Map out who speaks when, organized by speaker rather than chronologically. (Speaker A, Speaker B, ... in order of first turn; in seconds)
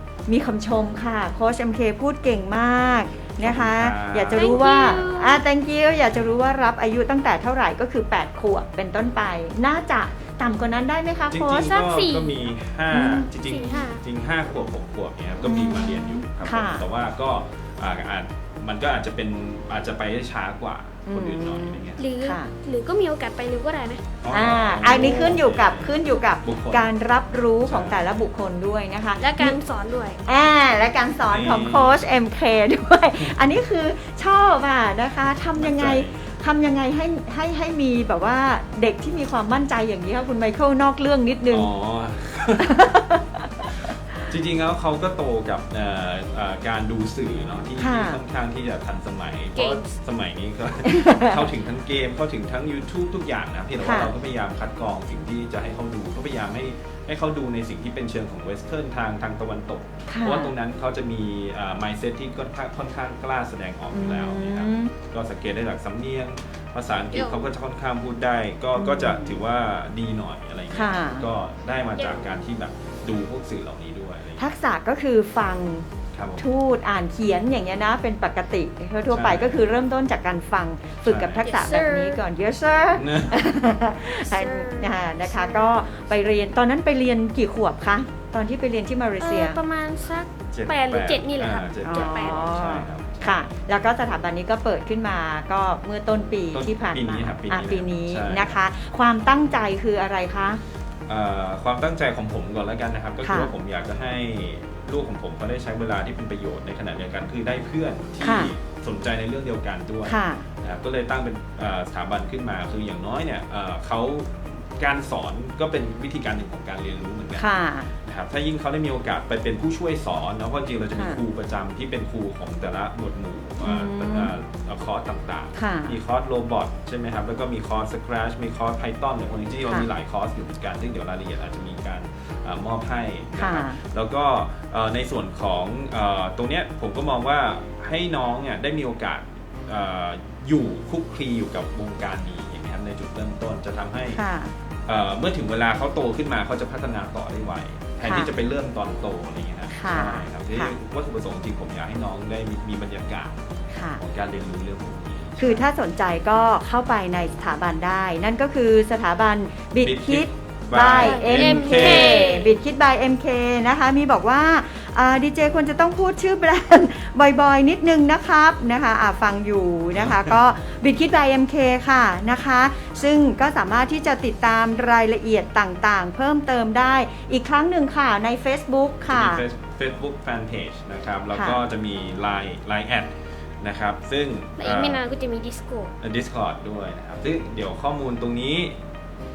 Speaker A: 0.3-11.8, 12.9-13.3, 15.4-16.9, 21.1-22.5, 24.3-29.6, 30.2-41.7, 42.6-43.7, 47.8-48.2, 50.8-51.4, 53.8-54.1, 60.1-60.5, 63.9-64.9, 68.8-69.3, 70.7-71.3, 74.4-89.6, 91.8-100.6, 103.2-103.5, 108.2-108.5, 110.0-110.5, 117.3-117.9, 120.9-121.2, 123.6-124.3, 125.5-126.0, 133.4-133.8, 144.1-144.5, 148.0-148.3, 149.7-150.8, 153.7-154.0, 155.4-179.4, 181.3-181.6
Speaker B: 3.4-4.9, 11.3-22.0, 24.2-26.9, 27.6-28.2, 31.3-32.0, 33.2-33.5, 35.5-36.2, 41.5-42.8, 43.6-74.5, 76.1-76.5, 79.1-79.6, 81.0-81.5, 82.9-83.5, 90.5-93.5, 96.5-98.6, 101.1-117.5, 118.0-144.2, 144.8-153.4, 154.0-155.6, 159.8-162.2, 169.9-170.3, 179.1-185.0, 186.0-188.8
Speaker C: 4.3-5.4, 11.7-12.5, 13.2-14.0, 22.0-24.0, 29.2-30.2, 49.5-50.0, 67.1-67.5, 71.9-72.4, 81.4-82.2, 84.2-85.9, 89.2-92.6, 160.9-162.5, 184.6-185.9